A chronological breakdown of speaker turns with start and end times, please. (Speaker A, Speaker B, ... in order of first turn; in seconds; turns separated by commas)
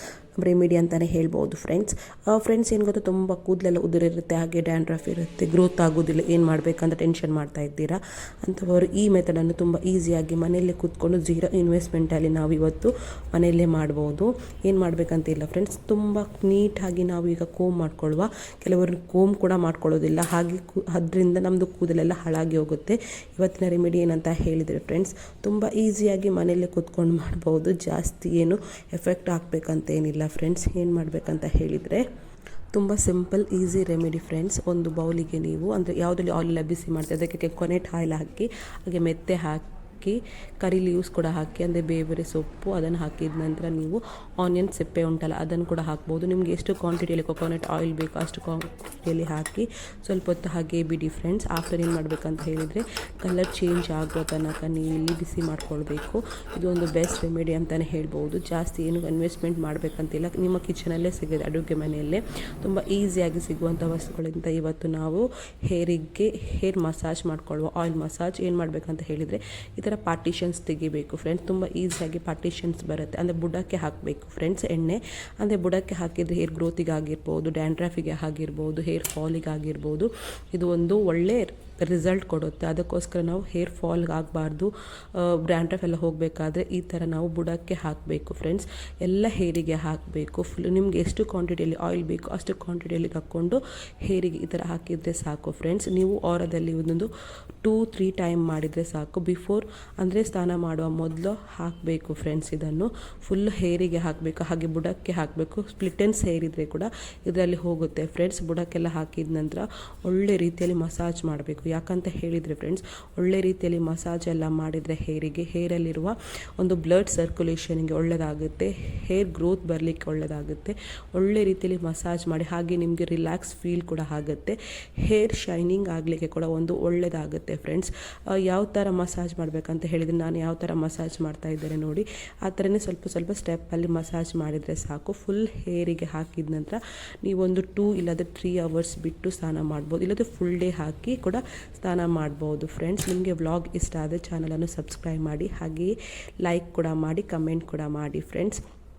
Speaker A: 0.4-32.1, Speaker A: 32.7-97.1, Speaker A: 97.6-145.9, Speaker A: 146.4-148.6